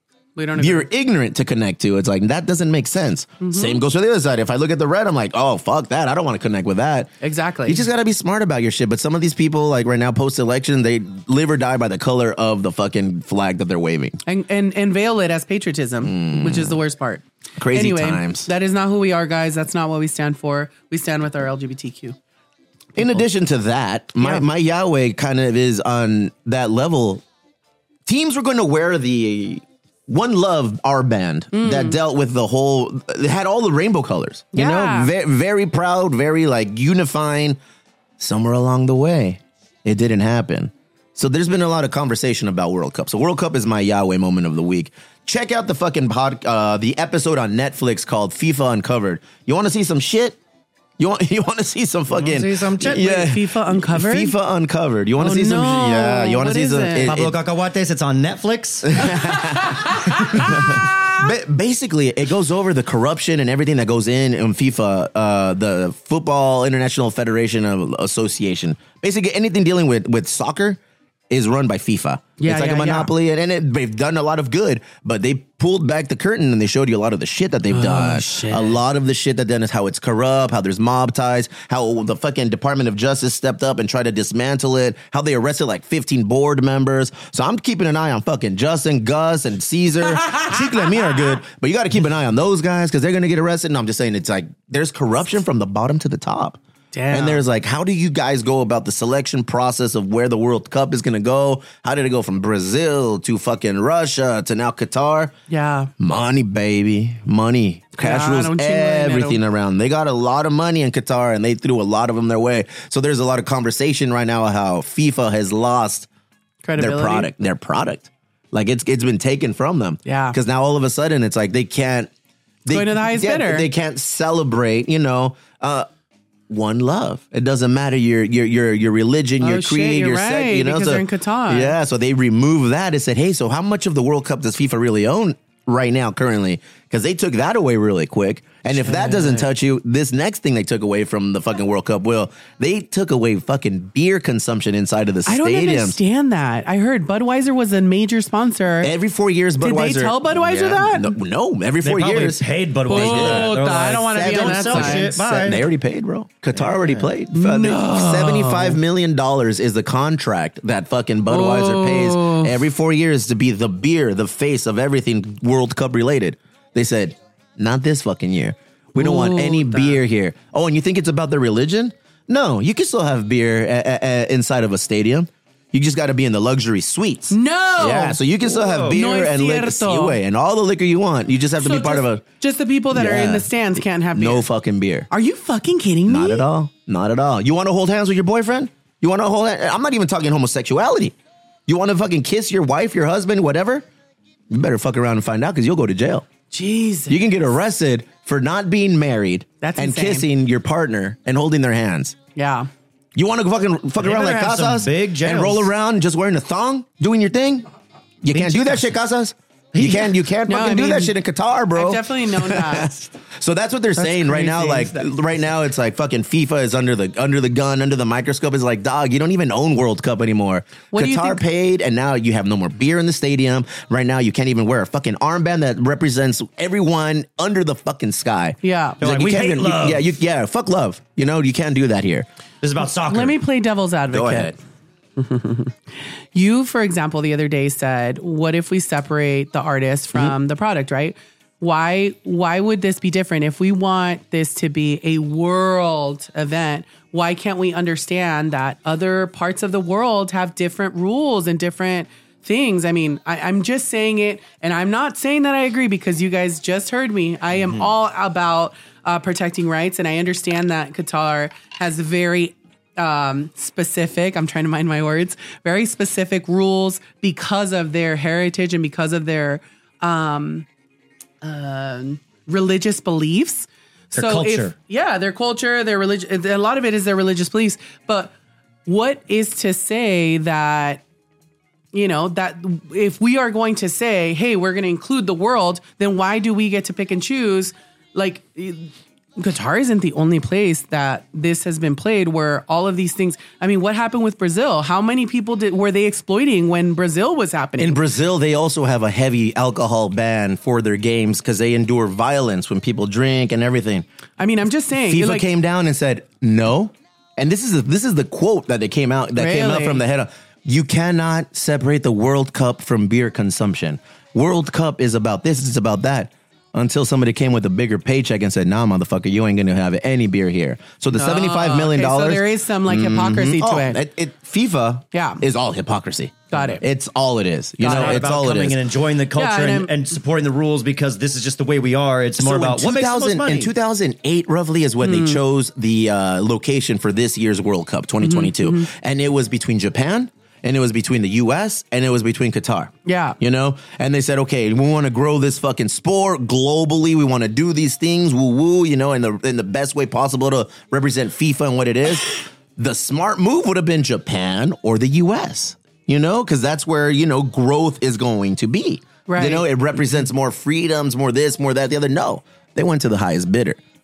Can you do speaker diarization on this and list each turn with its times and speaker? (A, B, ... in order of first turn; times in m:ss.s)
0:00.4-0:00.9 A
0:00.6-0:07.1 B
0:03.4-0:03.8 A
0:07.2-0:07.8 A
0:07.6-0:14.2 B
0:14.3-0:22.2 A
0:16.0-0:16.8 B
0:17.6-0:18.5 B
0:23.0-0:27.2 B
0:24.2-0:24.5 A
0:28.1-0:37.6 B
0:31.5-0:32.0 A
0:34.5-0:35.1 A
0:38.2-0:50.4 B
0:51.0-0:57.4 B
0:52.1-0:53.2 C
0:53.0-0:54.4 A
0:55.2-0:57.1 A
0:57.0-0:59.2 C
0:58.9-1:36.6 B
0:59.3-1:00.5 A
1:12.4-1:13.1 A
1:17.7-1:18.8 A
1:36.9-1:37.4 A
1:37.1-1:45.3 B
1:45.5-1:45.9 A
1:46.0-1:56.1 B
1:48.0-1:49.4 A
1:56.6-1:57.3 A
1:56.8-2:02.1 B
2:00.1-2:00.4 A
2:02.7-2:05.9 B
2:02.7-2:03.7 A
2:06.5-2:26.0 B
2:09.4-2:11.8 A
2:18.7-2:19.5 A
2:25.3-2:28.9 A
2:28.8-3:02.2 B
2:29.6-2:31.2 A
2:31.8-2:35.7 C
2:32.9-2:35.2 A
2:36.6-2:37.1 C
2:37.3-2:38.8 A
2:41.3-2:42.6 A
2:49.0-2:50.0 A
2:57.3-2:58.2 A
2:58.5-2:59.0 C
2:58.9-3:00.2 A
3:01.6-3:04.5 A
3:02.9-3:03.5 B
3:04.1-3:05.1 B
3:05.1-3:06.5 A
3:06.1-3:11.2 B
3:11.7-3:13.9 B
3:14.5-3:16.3 B
3:16.5-3:17.2 A
3:17.1-3:22.2 B
3:19.6-3:20.3 A
3:22.4-3:22.7 A
3:23.2-3:27.7 B
3:24.0-3:25.7 C
3:28.2-3:52.3 B
3:28.3-3:28.7 C
3:29.7-3:30.1 C
3:30.5-3:31.2 A
3:31.7-3:33.1 A
3:34.0-3:35.1 A
3:40.9-3:41.4 A
3:48.6-3:49.0 A
3:49.0-3:50.0 C
3:52.6-3:53.4 C
3:53.1-3:54.6 A
3:54.1-3:54.6 B
3:55.2-3:55.7 A
3:56.3-4:30.7 A
4:31.4-4:38.3 A
4:34.2-4:34.7 C
4:38.9-4:41.0 A
4:41.9-4:58.0 A
4:57.8-5:04.1 B
5:04.4-5:05.5 A
5:05.0-5:28.8 B
5:09.4-5:10.0 A
5:21.1-5:24.0 A
5:25.1-5:25.4 A
5:26.5-5:26.8 A
5:27.8-5:28.2 A
5:27.8-5:33.7 C
5:29.4-5:29.9 A
5:32.4-6:03.8 B
5:35.0-5:35.4 A
5:38.2-5:38.9 A
5:43.1-5:43.4 A
5:59.3-5:59.7 A